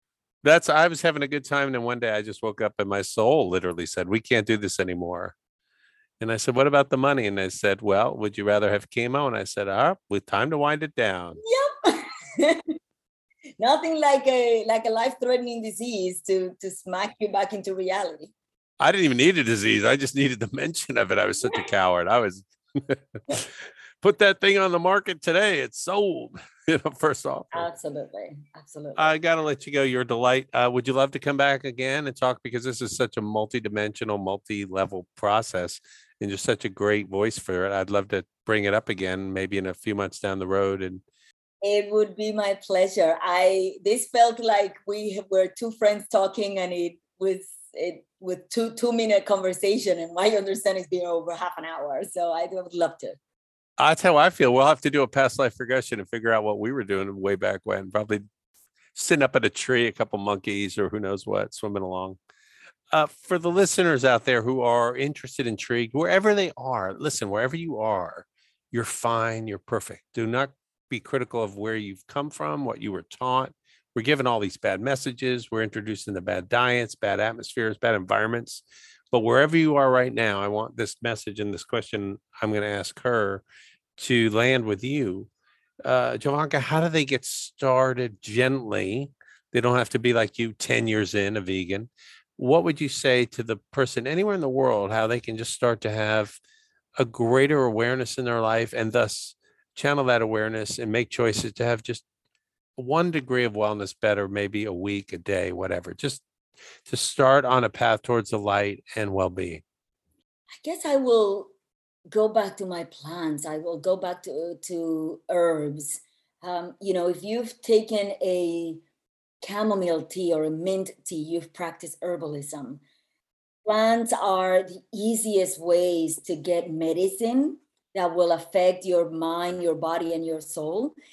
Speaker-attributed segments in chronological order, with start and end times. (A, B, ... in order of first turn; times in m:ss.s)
0:00.4-0:05.3 A
0:06.2-0:11.4 A
0:11.4-0:12.6 B
0:13.6-0:18.3 B
0:18.8-0:27.7 A
0:27.5-0:29.1 B
0:29.0-0:41.0 A
0:41.6-0:53.2 B
0:53.8-0:58.2 A
0:58.9-1:02.2 A
1:02.9-1:23.4 A
1:24.0-1:25.3 A
1:25.8-1:36.4 A
1:37.0-1:42.0 A
1:42.8-1:46.2 A
1:46.9-1:49.6 A
1:50.6-1:51.5 B
1:52.1-1:58.8 B
1:59.4-2:02.8 B
2:03.6-2:11.0 B